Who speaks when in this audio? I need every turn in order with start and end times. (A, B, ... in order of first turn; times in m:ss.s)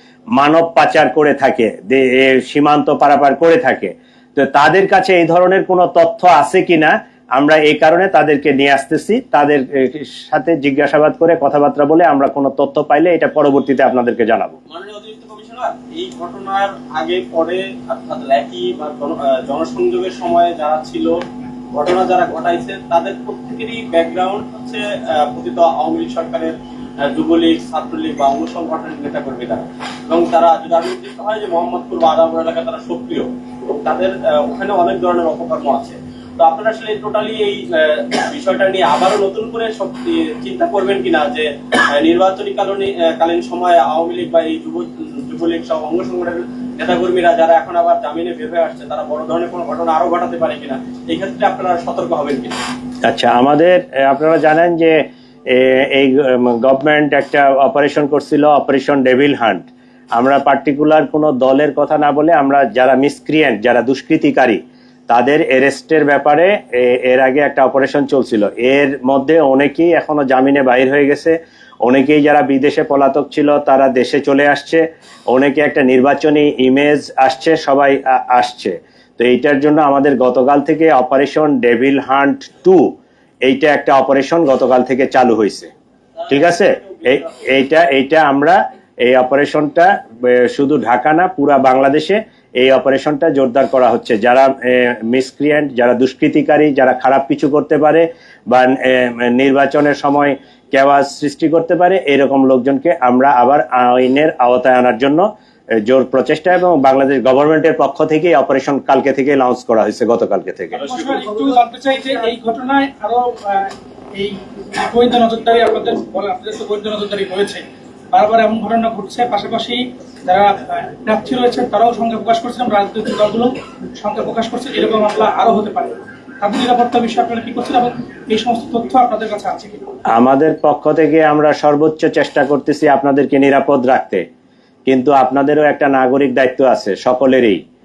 0:00.4-0:14.6 A
0:14.7-0:21.2 B
0:21.7-0:52.6 B
0:53.0-1:22.9 A
1:23.4-1:25.7 A
1:26.3-1:45.3 A
1:26.4-1:27.1 B
1:45.8-1:50.8 A
1:50.8-2:09.8 C
2:10.1-2:14.2 A
2:14.9-2:17.6 A